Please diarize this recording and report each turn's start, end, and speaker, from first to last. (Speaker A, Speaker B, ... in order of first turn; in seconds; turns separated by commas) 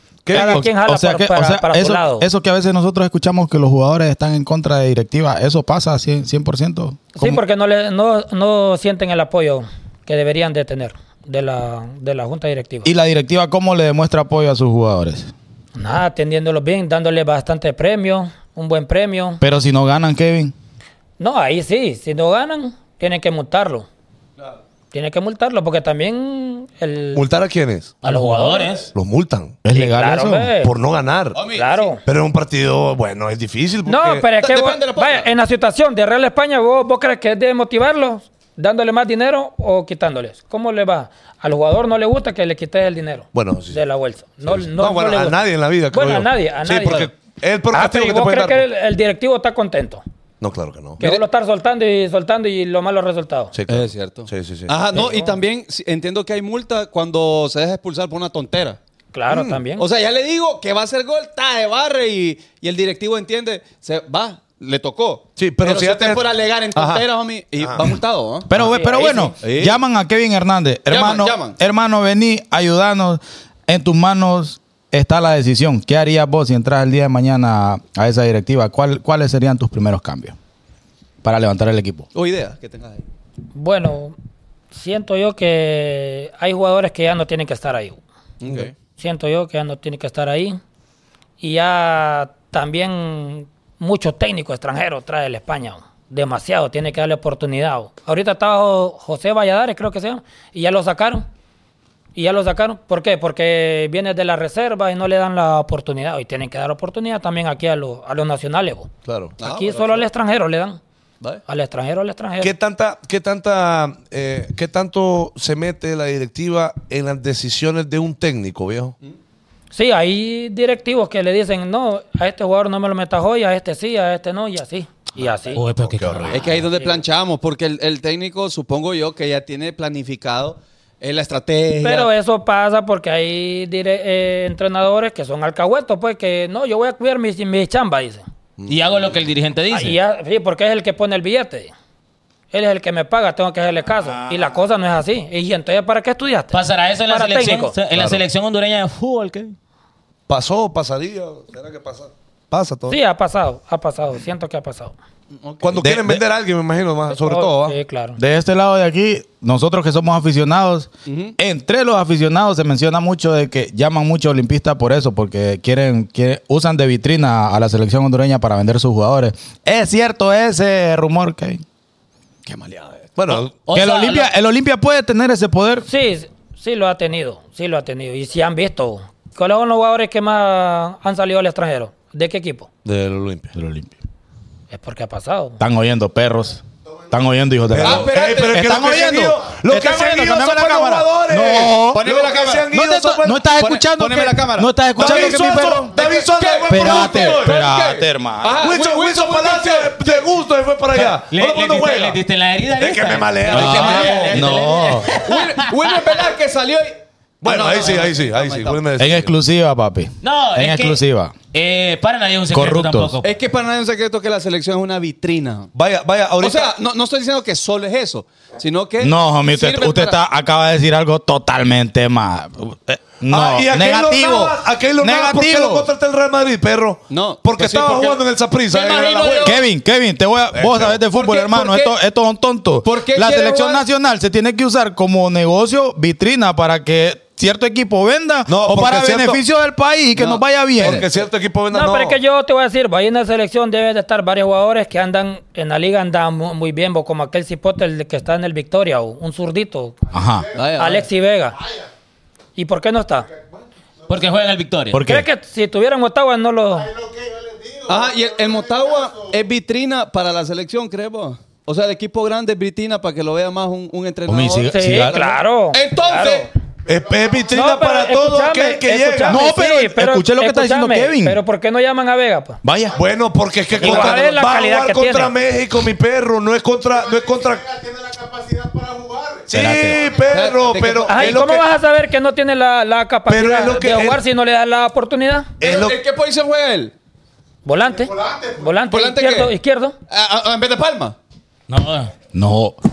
Speaker A: 0.3-0.7, Speaker B: 0.3-7.4, Speaker C: 0.3-2.3, Speaker C: 7.1-12.9, Speaker B: 12.8-15.3, Speaker C: 15.8-19.4, Speaker B: 19.4-20.5, Speaker C: 21.2-23.9, Speaker C: 24.9-27.2, Speaker A: 27.1-28.0, Speaker D: 28.0-28.9, Speaker C: 28.0-28.9, Speaker A: 28.9-29.6, Speaker B: 29.6-30.5, Speaker C: 29.7-30.7, Speaker A: 30.6-31.4, Speaker E: 31.3-31.9, Speaker C: 31.5-32.0, Speaker A: 32.0-34.3, Speaker C: 33.9-47.1, Speaker E: 34.4-35.3, Speaker A: 43.3-43.8, Speaker A: 44.5-48.6, Speaker C: 47.7-50.0, Speaker A: 50.4-51.0, Speaker C: 51.0-53.5, Speaker A: 53.5-54.8, Speaker E: 53.7-58.8, Speaker C: 54.9-55.4, Speaker C: 59.1-59.9, Speaker A: 59.3-59.6, Speaker E: 59.8-68.7, Speaker A: 65.4-67.1, Speaker B: 68.5-80.4, Speaker C: 68.5-69.4, Speaker E: 69.4-69.8, Speaker E: 70.9-71.6, Speaker B: 81.2-82.1, Speaker E: 82.1-83.0, Speaker C: 83.5-84.2, Speaker C: 84.7-88.0, Speaker E: 88.4-88.7, Speaker C: 89.0-90.6, Speaker C: 91.4-101.3, Speaker C: 102.2-110.8, Speaker A: 109.1-109.4, Speaker E: 109.4-110.1, Speaker C: 111.5-112.5, Speaker A: 112.4-119.0, Speaker C: 119.7-125.6, Speaker D: 125.5-126.4, Speaker A: 125.8-126.5, Speaker E: 126.3-132.1, Speaker C: 126.7-127.0, Speaker C: 131.8-138.2, Speaker D: 138.7-140.0, Speaker C: 139.7-141.7, Speaker C: 142.5-147.8, Speaker D: 146.5-149.6, Speaker A: 147.9-148.2, Speaker A: 150.3-153.0, Speaker C: 152.9-154.9, Speaker E: 155.4-155.9, Speaker A: 155.6-157.8, Speaker B: 155.8-156.2, Speaker C: 157.1-158.2, Speaker B: 158.2-171.6, Speaker E: 161.1-161.4, Speaker E: 172.5-173.1, Speaker A: 173.2-173.5, Speaker D: 173.3-174.3, Speaker B: 173.7-175.9, Speaker C: 175.8-182.7, Speaker A: 182.8-183.5, Speaker B: 183.6-183.9, Speaker C: 184.7-185.6, Speaker B: 185.6-192.1, Speaker A: 187.7-193.4, Speaker E: 187.8-189.1, Speaker E: 191.9-200.1, Speaker B: 192.7-196.0, Speaker A: 195.0-197.6, Speaker B: 196.7-198.7, Speaker A: 198.6-202.2, Speaker D: 201.3-205.6, Speaker A: 202.8-204.5, Speaker E: 203.5-208.8, Speaker B: 203.6-205.1, Speaker A: 207.4-209.3, Speaker B: 209.0-211.3, Speaker D: 210.2-211.0, Speaker D: 211.5-213.3, Speaker B: 212.5-213.2, Speaker E: 213.2-215.7, Speaker A: 215.7-216.7, Speaker E: 216.4-220.2, Speaker B: 219.0-225.9, Speaker A: 223.3-229.6, Speaker E: 227.1-229.6, Speaker B: 229.4-241.1, Speaker A: 230.5-231.0, Speaker E: 231.1-232.0, Speaker E: 232.8-233.8, Speaker A: 238.5-239.4, Speaker E: 240.2-241.2, Speaker A: 240.8-242.2, Speaker C: 241.7-250.0, Speaker B: 250.1-250.5, Speaker F: 250.1-250.8, Speaker E: 250.6-251.1, Speaker C: 250.8-251.6, Speaker F: 251.6-251.9, Speaker C: 252.6-253.3, Speaker F: 253.3-254.3, Speaker D: 254.1-255.0, Speaker B: 254.9-255.3, Speaker C: 255.0-256.9, Speaker F: 256.7-259.4, Speaker E: 257.9-266.5, Speaker B: 264.3-265.3, Speaker C: 264.7-266.5, Speaker F: 266.9-267.6, Speaker A: 266.9-269.5, Speaker C: 267.5-272.6, Speaker B: 269.3-271.4, Speaker B: 272.6-273.0, Speaker A: 272.9-277.7, Speaker C: 273.8-275.4, Speaker F: 276.9-280.5, Speaker A: 279.5-281.7, Speaker D: 279.6-280.0, Speaker E: 280.3-281.4, Speaker C: 281.1-285.5, Speaker A: 283.3-284.2, Speaker A: 285.6-286.0, Speaker E: 285.6-286.9, Speaker C: 287.6-290.0, Speaker F: 287.9-288.8, Speaker E: 288.9-289.5, Speaker E: 290.1-291.2, Speaker D: 291.7-292.1, Speaker B: 292.3-292.8